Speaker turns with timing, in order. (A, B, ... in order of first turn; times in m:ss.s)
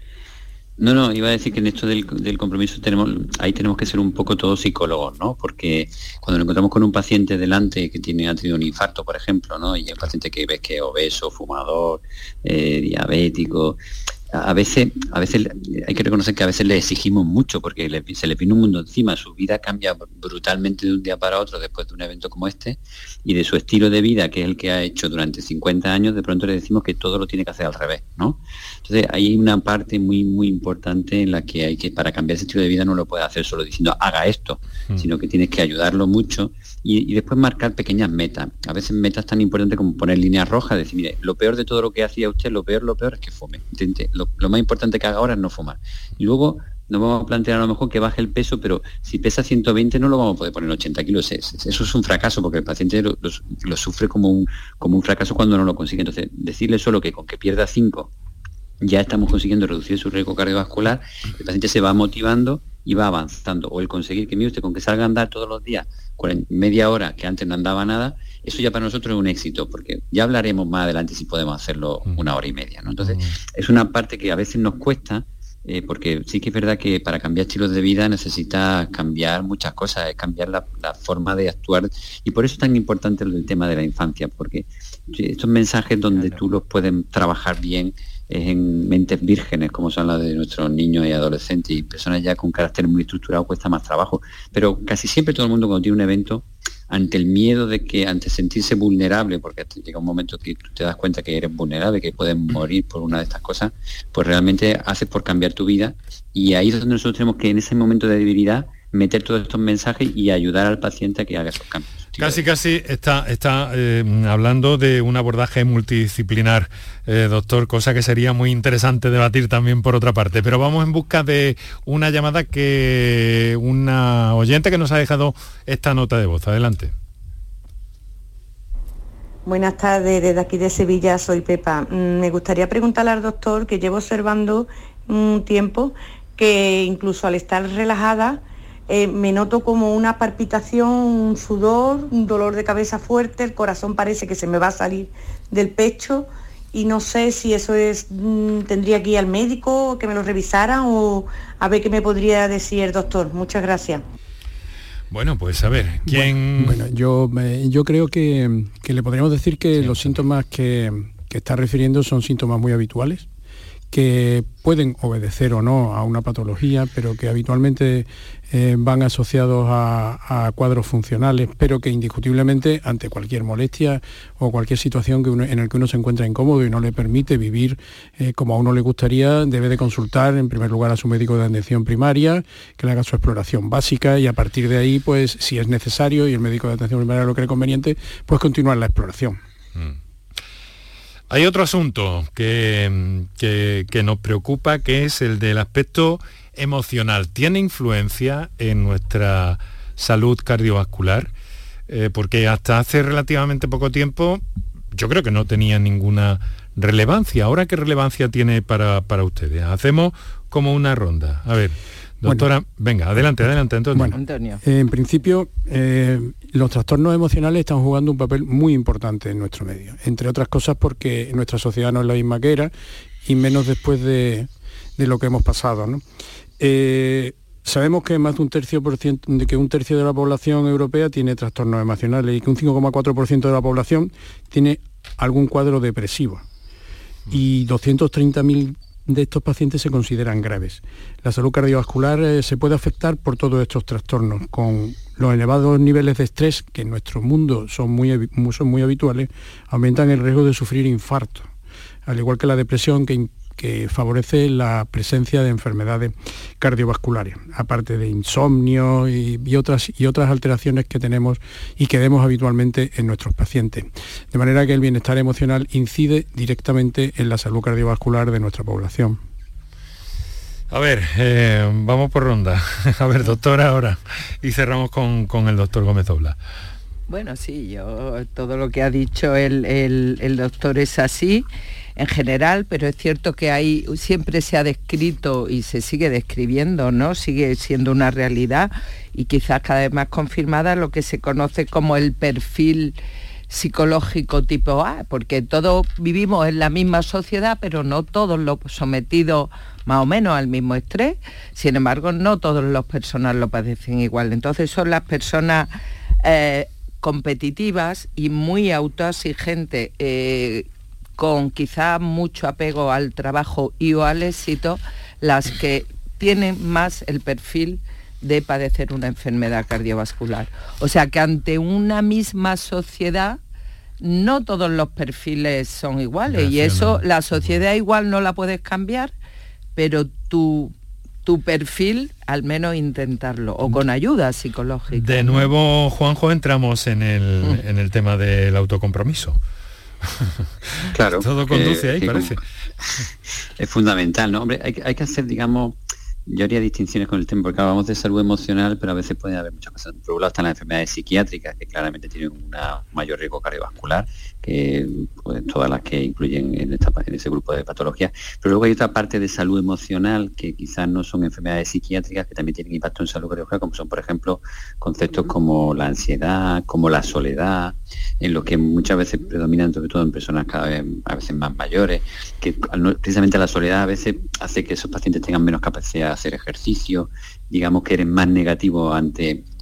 0:00.8-0:13.8 A
0:14.3-0:58.1 A
0:58.8-1:52.4 A
1:13.0-1:13.4 B
1:26.1-1:26.4 C
1:52.2-2:06.9 B
2:09.4-2:34.0 D
2:35.1-2:36.8 B
2:36.1-2:43.3 E
2:39.8-2:40.2 B
2:43.9-3:09.4 E
3:11.3-3:21.3 B
3:21.9-3:24.4 B
3:24.9-3:34.2 B
3:32.2-3:32.5 E
3:33.9-3:42.7 E
3:34.1-3:34.6 C
3:43.2-3:46.0 E
3:46.6-3:56.4 E
3:57.3-4:11.5 E
4:12.1-4:29.2 E
4:30.7-4:36.4 B
4:37.1-4:41.5 C
4:42.0-4:53.0 C
4:53.5-5:10.7 C
5:11.2-5:23.4 C
5:24.0-5:29.1 C
5:26.3-5:27.6 B
5:29.8-5:30.7 C
5:31.2-5:35.5 C
5:34.9-5:39.4 B
5:40.0-5:42.4 B
5:40.9-5:42.4 A
5:43.6-5:45.8 A
5:46.3-6:19.4 A